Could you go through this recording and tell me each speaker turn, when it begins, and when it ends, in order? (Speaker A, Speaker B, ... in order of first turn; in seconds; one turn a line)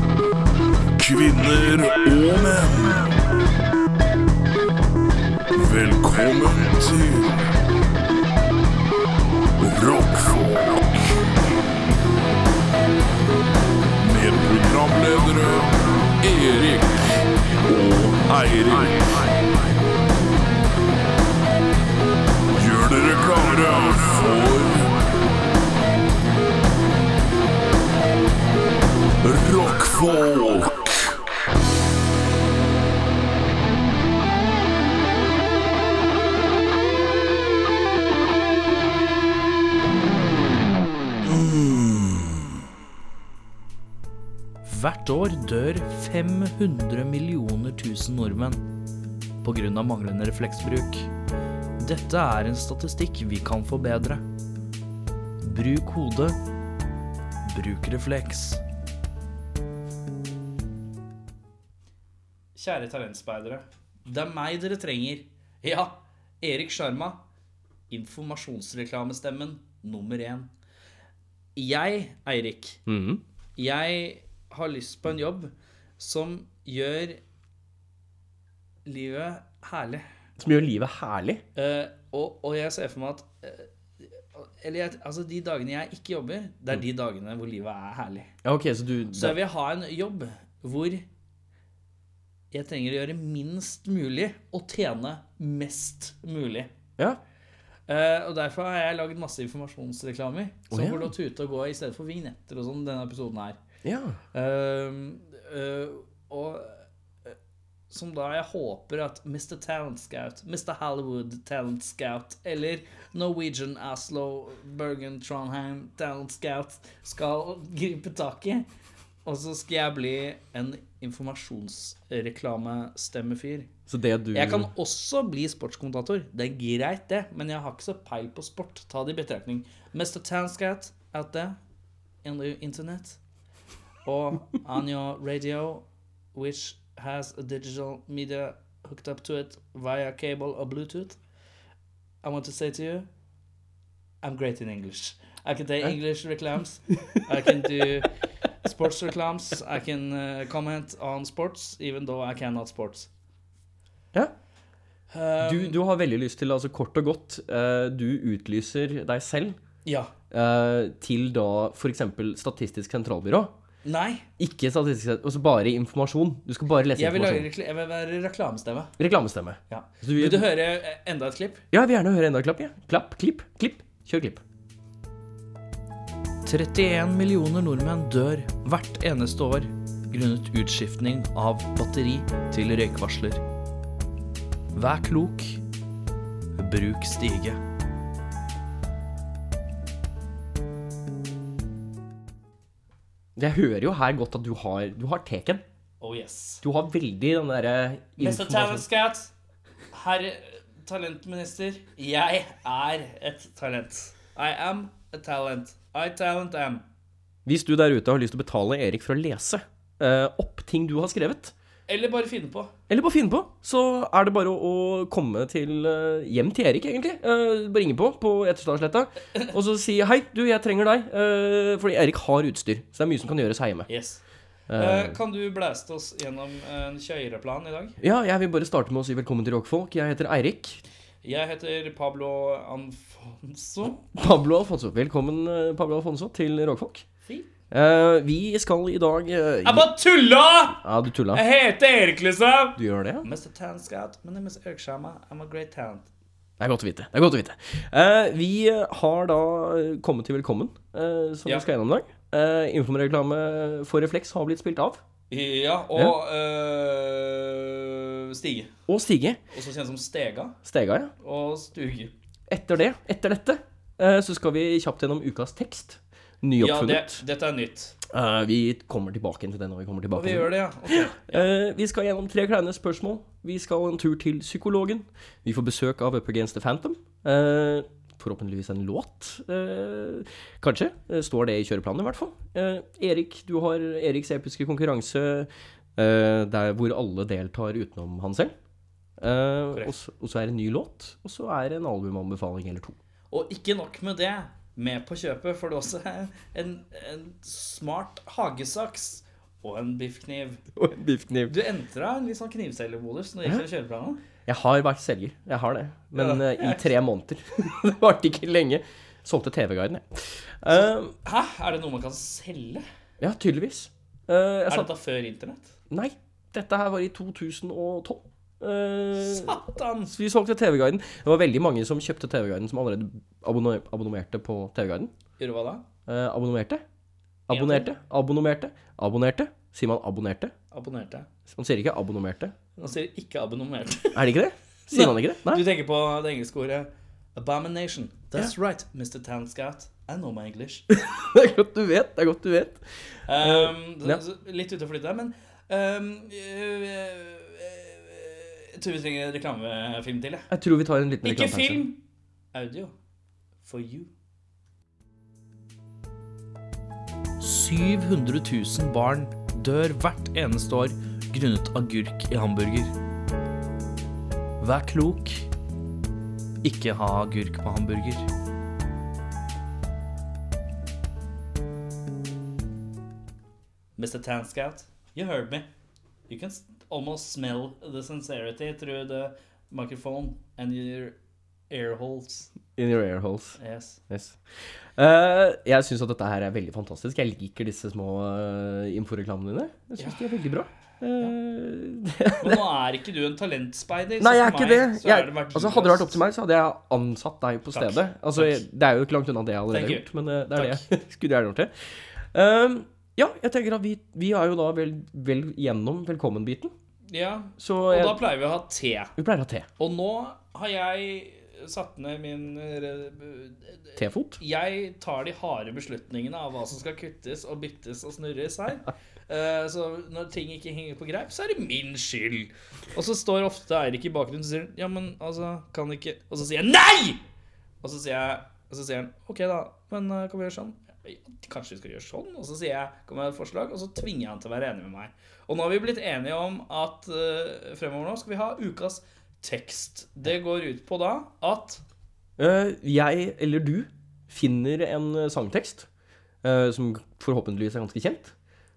Speaker A: 1.0-3.1
Speaker A: 5.5-7.3
Speaker A: 9.6-11.2
Speaker A: 14.0-19.3
Speaker A: 22.5-25.0
Speaker A: 29.2-31.1
Speaker B: 41.2-42.5
Speaker B: 44.6-48.7
Speaker B: 49.4-51.1
Speaker B: 51.8-54.2
Speaker B: 55.4-56.4
Speaker B: 57.5-58.6
Speaker B: 62.6-67.2
Speaker B: 67.9-70.5
Speaker B: 71.6-72.8
Speaker C: 72.9-73.2
Speaker B: 73.6-77.2
Speaker B: 78.9-80.0
Speaker C: 80.4-81.4
Speaker B: 81.6-88.3
Speaker C: 88.4-89.4
Speaker B: 89.1-91.1
Speaker B: 92.5-96.7
Speaker B: 97.9-103.6
Speaker C: 100.7-101.1
Speaker C: 103.8-104.2
Speaker B: 104.3-107.3
Speaker B: 107.9-118.7
Speaker B: 119.2-123.7
Speaker C: 123.9-124.7
Speaker B: 124.3-131.6
Speaker B: 132.2-133.2
Speaker B: 134.1-135.8
Speaker B: 136.3-141.2
Speaker B: 142.2-143.1
Speaker B: 144.2-148.1
Speaker B: 148.6-153.1
Speaker B: 155.1-155.8
Speaker C: 155.4-159.6
Speaker B: 159.8-160.1
Speaker C: 160.3-163.5
Speaker B: 163.8-164.3
Speaker C: 164.4-167.5
Speaker B: 166.9-168.9
Speaker C: 169.0-170.5
Speaker B: 169.7-171.6
Speaker C: 171.7-174.4
Speaker B: 176.5-183.4
Speaker B: 184.8-185.6
Speaker B: 186.6-187.6
Speaker C: 193.4-195.6
Speaker B: 196.0-196.6
Speaker C: 196.6-198.9
Speaker B: 198.2-199.3
Speaker B: 199.9-206.8
Speaker C: 207.5-211.5
Speaker B: 211.9-212.7
Speaker C: 212.9-223.9
Speaker B: 223.9-224.2
Speaker C: 224.7-225.2
Speaker B: 224.8-228.0
Speaker C: 228.0-230.8
Speaker B: 231.2-234.0
Speaker C: 234.1-237.1
Speaker C: 237.7-239.9
Speaker B: 239.6-246.1
Speaker C: 240.8-241.4
Speaker C: 242.8-243.3
Speaker C: 246.6-255.0
Speaker B: 255.3-258.7
Speaker C: 258.9-259.4
Speaker B: 259.5-260.6
Speaker C: 260.6-261.1
Speaker B: 261.2-262.1
Speaker C: 262.5-267.2
Speaker B: 266.6-267.9
Speaker C: 268.1-288.5
Speaker B: 270.1-271.5
Speaker C: 289.2-293.0
Speaker B: 293.3-300.6
Speaker C: 300.8-301.6
Speaker B: 301.5-304.2
Speaker C: 304.4-311.1
Speaker B: 306.1-306.9
Speaker B: 310.8-312.9
Speaker C: 313.2-314.9
Speaker B: 314.7-315.7
Speaker C: 315.9-325.1
Speaker B: 319.2-320.2
Speaker B: 325.4-325.9
Speaker C: 326.1-326.8
Speaker C: 327.5-330.5
Speaker B: 327.5-327.9
Speaker B: 330.7-331.3
Speaker C: 331.5-332.5
Speaker B: 332.8-334.3
Speaker C: 334.1-335.6
Speaker B: 334.9-340.9
Speaker C: 340.9-344.2
Speaker B: 343.3-350.5
Speaker C: 350.5-351.9
Speaker B: 351.2-352.0
Speaker B: 352.5-352.9
Speaker B: 353.6-354.1
Speaker B: 357.4-362.9
Speaker B: 364.6-365.5
Speaker B: 366.6-368.3
Speaker B: 374.0-375.7
Speaker B: 376.3-381.2
Speaker B: 381.7-382.5
Speaker C: 382.8-383.6
Speaker B: 383.6-384.0
Speaker C: 384.1-384.4
Speaker C: 385.0-392.7
Speaker B: 390.0-390.3
Speaker B: 392.4-396.2
Speaker C: 394.2-406.7
Speaker B: 397.7-398.6
Speaker B: 399.7-400.8
Speaker B: 407.1-409.1
Speaker C: 407.6-408.3
Speaker C: 409.2-409.7
Speaker B: 409.8-427.2
Speaker C: 414.0-414.4
Speaker B: 427.8-441.8
Speaker C: 442.4-445.9
Speaker C: 446.4-448.3